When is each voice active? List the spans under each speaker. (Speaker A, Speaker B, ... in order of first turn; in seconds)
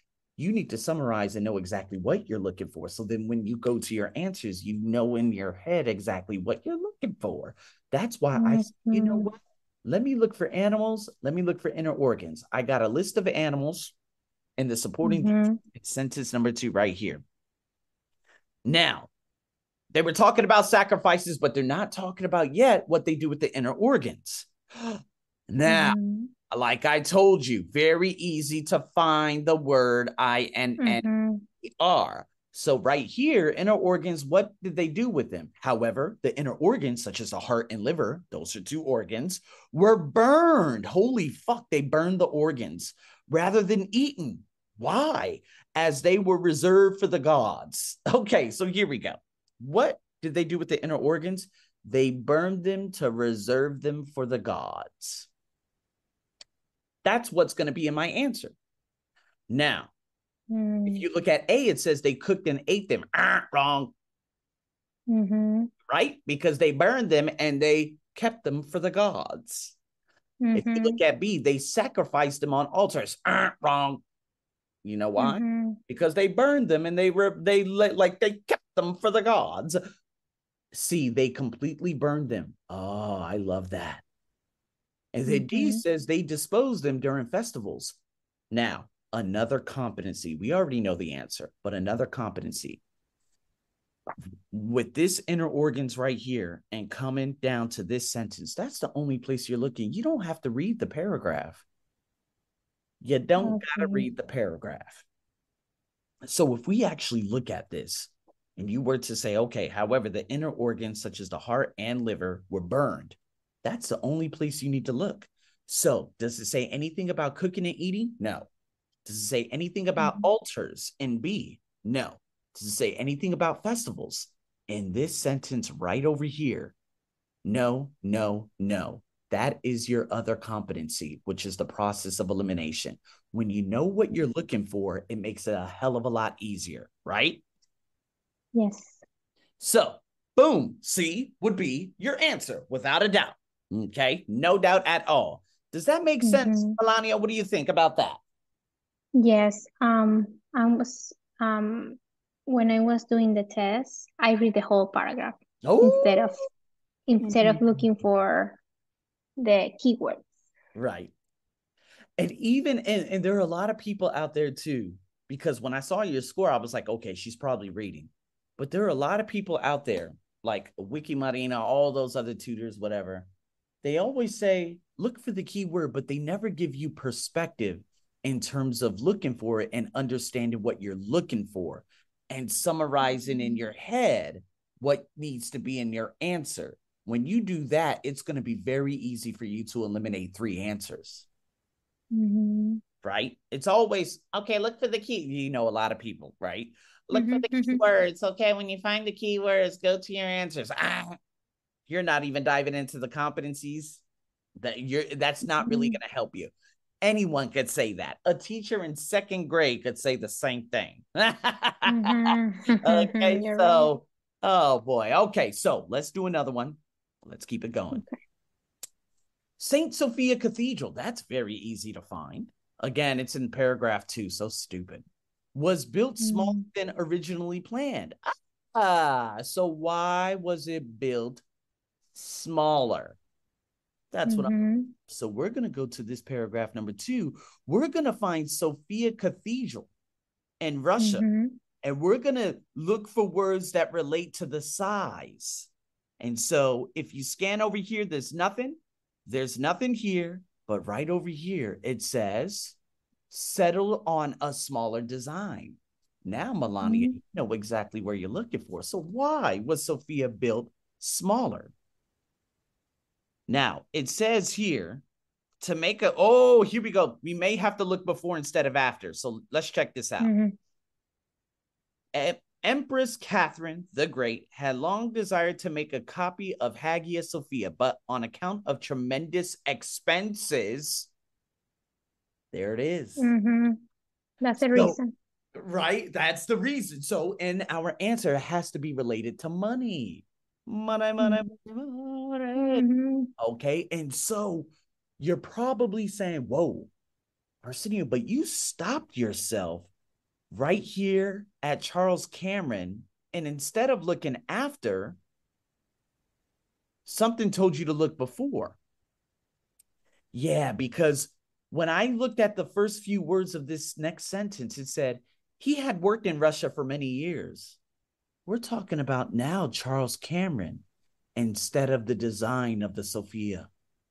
Speaker A: 0.4-13.9, 14.6-17.2, 18.6-19.1, 19.9-26.0, 26.5-31.0, 31.6-55.3, 57.0-58.5, 59.5-59.9, 60.9-63.9, 65.9-69.8, 70.5-74.0, 74.8-79.8, 80.7-84.0, 85.1-88.0, 88.5-92.8, 94.5-101.6, 103.0-105.0, 106.2-118.5, 119.0-126.7, 127.4-137.4, 139.6-148.2, 155.6-156.3, 157.2-157.8, 160.7-161.1, 162.2-173.3, 173.8-191.2, 193.0-201.2, 201.9-204.0, 204.6-218.0, 219.6-228.2, 228.7-231.4, 232.1-233.2, 234.1-234.5, 235.1-239.9, 240.6-241.2, 241.8-252.8, 253.3-261.7, 263.5-265.0, 265.6-270.3, 272.1-281.1, 282.5-283.3, 284.6-285.0, 285.5-292.8, 293.4-296.9, 297.6-299.9, 300.5-305.2, 307.0-308.8, 310.3-317.8, 318.5-320.8, 321.4-323.7
Speaker B: 8.3-9.3, 15.0-15.6, 25.6-26.3, 30.8-31.4, 60.5-61.0, 65.1-65.7, 70.4-71.0, 75.2-75.8, 85.2-85.8, 103.4-104.1, 120.0-120.3, 138.5-139.0, 146.2-146.8, 149.2-156.4, 157.1-158.6, 159.4-160.2, 183.0-183.6, 192.1-192.8, 197.1-197.8, 205.4-206.0, 211.9-213.9, 226.2-226.6, 234.2-234.9, 241.0-241.6, 256.8-257.1, 270.2-270.6, 283.2-283.8, 284.4-285.1, 292.6-293.3